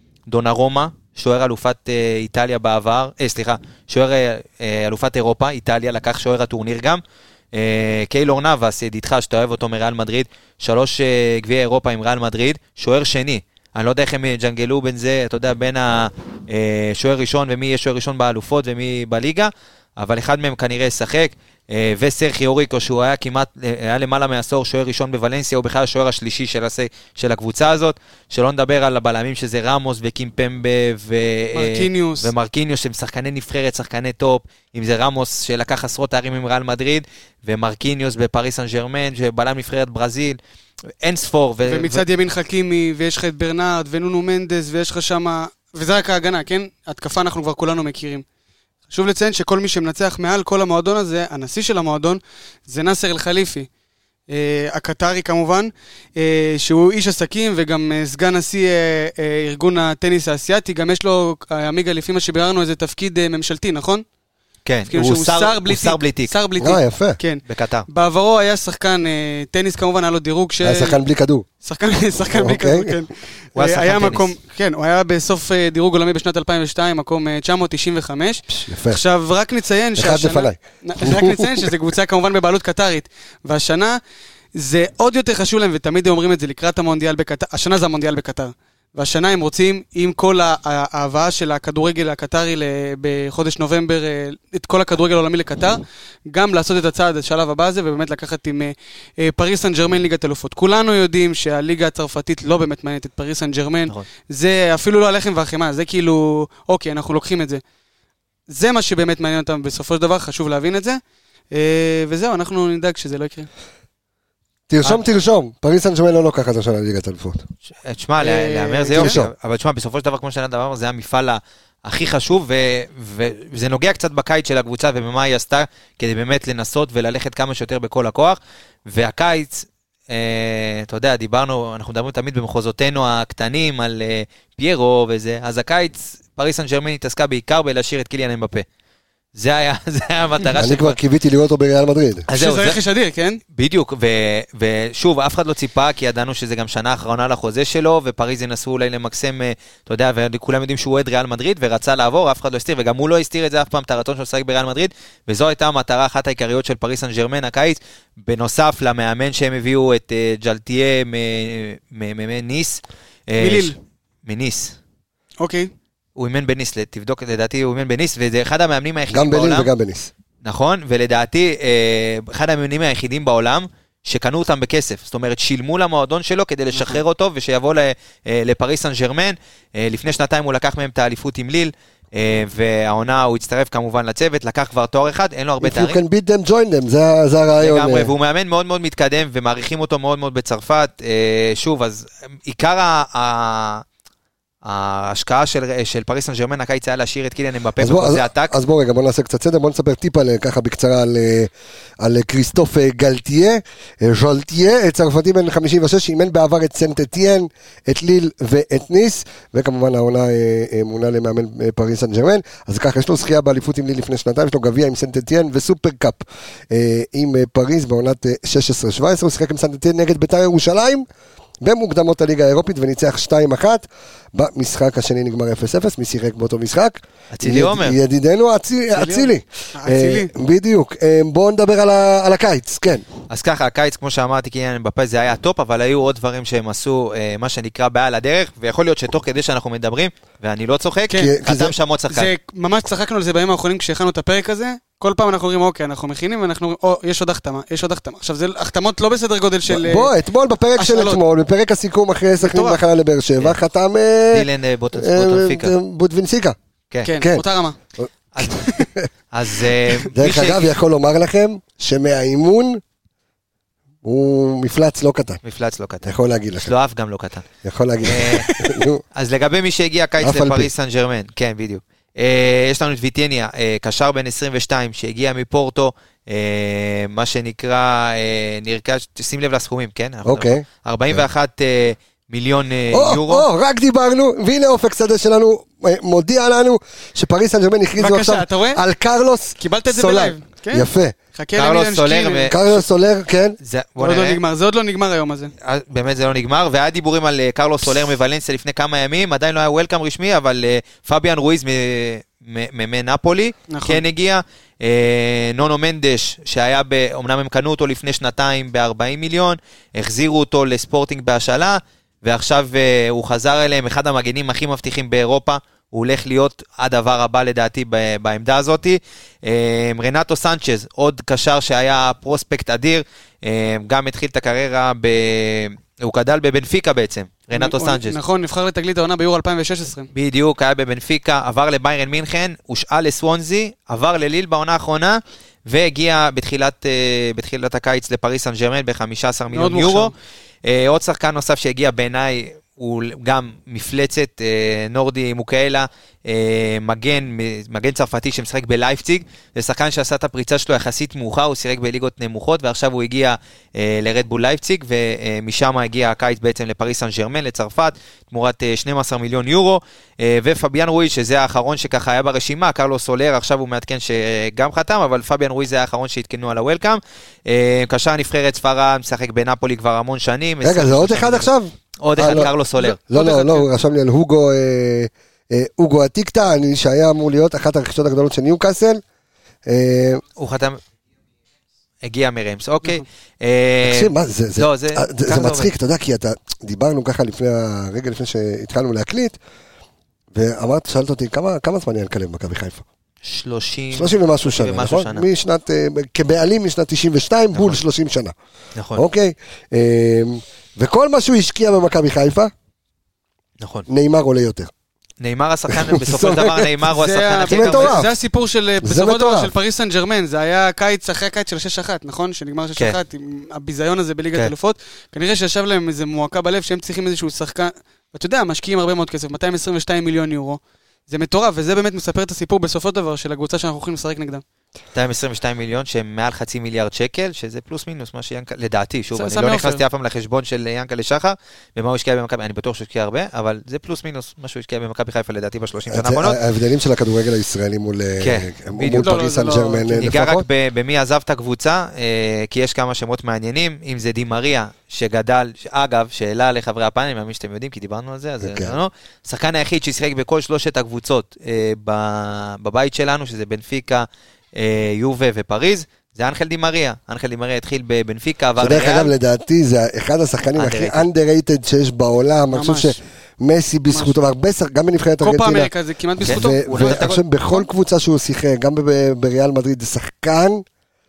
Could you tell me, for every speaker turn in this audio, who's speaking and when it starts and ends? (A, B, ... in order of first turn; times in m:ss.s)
0:00.3-0:07.0 A
0:07.5-0:40.4 A
0:31.5-0:32.3 B
0:41.0-0:42.0 A
0:41.6-0:48.2 B
0:48.9-0:53.7 B
0:54.3-1:04.0 B
1:04.6-1:06.3 A
1:04.9-1:11.0 B
1:06.6-1:07.2 C
1:07.4-1:07.9 A
1:10.6-1:11.4 C
1:11.6-1:24.0 B
1:12.3-1:12.9 C
1:13.5-1:14.3 A
1:18.5-1:19.0 C
1:20.0-1:21.6 C
1:24.5-1:47.6 B
1:48.5-1:51.0 B
1:51.5-1:53.5 B
1:54.7-1:57.4 C
1:57.8-2:18.6 A
1:58.2-1:59.2 B
1:59.0-1:59.3 C
2:19.3-2:21.0 A
2:20.6-2:22.3 C
2:22.3-2:22.8 A
2:22.3-2:23.4 B
2:23.5-2:44.8 A
2:43.4-2:43.8 B
2:45.4-2:45.7 B
2:46.2-2:49.7 A
2:49.1-2:50.1 C
2:50.4-3:06.0 A
2:56.7-2:57.0 B
3:05.6-3:08.1 C
3:07.6-3:13.8 A
3:14.6-3:18.5 A
3:17.8-3:41.0 C
3:41.6-3:53.0 C
3:47.3-3:48.0 A
3:48.9-3:50.3 B
3:53.3-4:02.3 A
4:01.1-4:01.7 C
4:02.1-4:10.1 B
4:09.7-4:16.6 C
4:10.8-4:11.2 B
4:12.4-4:12.8 B
4:14.3-4:15.7 A
4:17.0-4:17.8 B
4:18.0-4:19.1 C
4:18.4-4:18.8 B
4:19.3-4:20.6 A
4:20.0-4:20.4 B
4:20.1-4:22.8 C
4:24.0-4:25.4 C
4:25.4-4:27.4 A
4:26.0-4:26.7 C
4:27.6-4:29.0 C
4:28.0-4:28.5 A
4:28.2-4:28.7 B
4:29.1-4:43.5 A
4:30.2-4:30.7 C
4:40.2-4:41.2 C
4:42.9-4:51.1 C
4:48.0-4:48.8 B
4:49.6-4:52.5 B
4:51.6-4:52.8 A
4:52.5-4:53.6 C
4:53.6-4:54.4 A
4:54.0-4:55.5 B
4:55.6-5:28.2 A
5:03.7-5:04.0 B
5:27.5-5:30.1 B
5:30.1-5:40.1 A
5:39.5-5:40.1 B
5:40.6-6:11.5 A
6:10.6-6:12.5 C
6:12.0-6:13.0 A
6:12.8-6:13.6 B
6:13.1-6:19.0 C
6:19.6-6:20.2 C
6:20.4-6:20.8 A
6:22.0-6:25.7 A
6:23.8-6:29.4 C
6:30.3-6:32.8 C
6:33.2-6:35.2 A
6:33.9-6:38.3 C
6:37.5-6:37.8 A
6:38.8-6:39.0 A
6:38.9-6:42.5 C
6:43.6-6:43.8 A
6:43.9-6:44.7 C
6:45.2-6:48.0 A
6:45.7-6:46.7 C
6:46.9-7:04.4 B
6:47.5-6:48.1 C
6:48.8-6:49.5 C
7:04.9-7:16.4 A
7:09.1-7:09.8 B
7:15.9-7:20.4 C
7:18.2-7:19.3 A
7:18.9-7:20.1 B
7:20.0-7:39.1 A
7:28.4-7:28.8 C
7:38.6-7:45.7 C
7:40.6-7:41.0 A
7:42.5-7:43.0 B
7:43.9-7:44.1 B
7:45.2-7:47.6 B
7:46.2-7:47.2 A
7:46.2-7:50.6 C